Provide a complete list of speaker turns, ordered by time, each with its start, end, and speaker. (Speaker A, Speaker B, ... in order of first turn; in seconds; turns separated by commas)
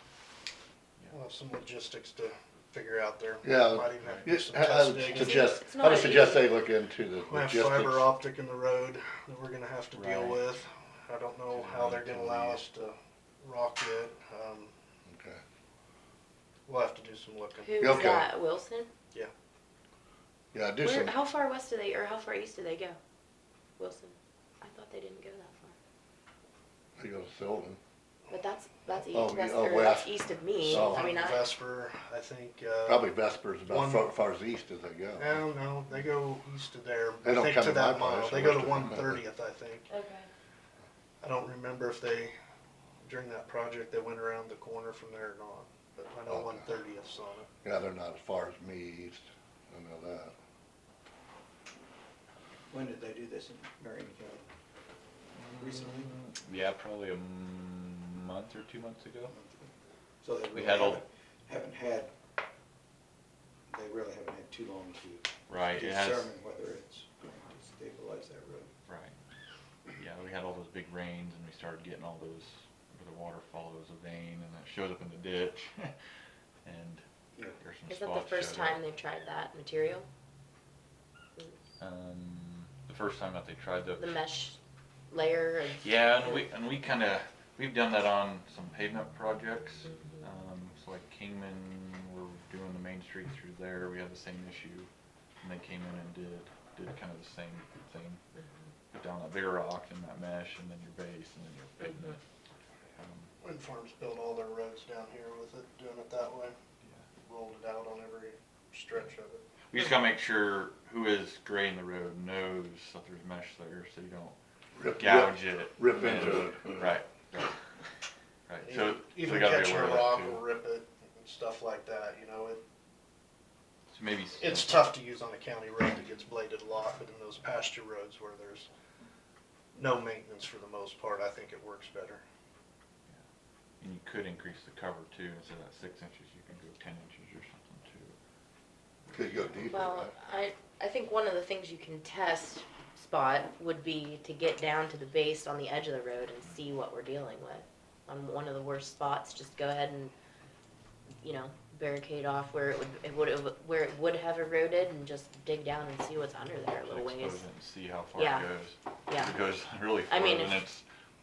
Speaker A: 1.1-5.5, Speaker B: 3.4-8.1, Speaker C: 4.0-4.3, Speaker D: 5.1-6.5, Speaker A: 7.3-14.7, Speaker C: 9.9-10.4, Speaker C: 11.5-12.6, Speaker B: 15.1-15.4, Speaker A: 16.7-18.0, Speaker D: 17.6-18.9, Speaker B: 17.8-18.3, Speaker B: 20.5-21.1, Speaker D: 20.8-23.0, Speaker D: 23.8-25.8, Speaker B: 27.0-27.8, Speaker D: 28.3-31.4, Speaker B: 29.1-31.1, Speaker A: 30.6-33.0, Speaker B: 32.9-35.4, Speaker A: 33.7-34.1, Speaker A: 35.2-39.9, Speaker B: 37.2-39.2, Speaker D: 39.9-40.3, Speaker A: 41.2-42.3, Speaker A: 43.0-47.5, Speaker B: 46.3-46.7, Speaker B: 47.6-50.3, Speaker E: 52.7-54.5, Speaker C: 55.3-59.3, Speaker E: 55.5-56.1, Speaker E: 59.2-62.1, Speaker C: 60.5-61.0, Speaker E: 63.7-68.7, Speaker C: 65.5-66.3, Speaker C: 68.8-69.1, Speaker C: 70.0-75.9, Speaker C: 76.6-77.0, Speaker C: 77.6-78.8, Speaker D: 77.9-80.0, Speaker C: 81.8-84.2, Speaker D: 84.0-84.6, Speaker D: 85.1-86.4, Speaker C: 85.8-94.9, Speaker C: 95.4-98.2, Speaker C: 98.9-102.2, Speaker D: 101.8-102.1, Speaker C: 103.0-103.3, Speaker A: 103.4-106.5, Speaker A: 107.2-109.4, Speaker C: 109.7-114.3, Speaker B: 114.8-116.8, Speaker C: 115.0-117.6, Speaker C: 118.5-120.4, Speaker A: 118.6-122.6, Speaker C: 123.9-124.9, Speaker A: 124.4-128.7, Speaker A: 129.7-132.2, Speaker C: 133.8-138.1, Speaker C: 139.1-139.5, Speaker B: 139.1-140.1, Speaker D: 139.7-150.1, Speaker D: 151.2-157.4, Speaker C: 156.8-160.8, Speaker D: 158.1-158.5, Speaker D: 159.1-159.3, Speaker D: 160.1-160.6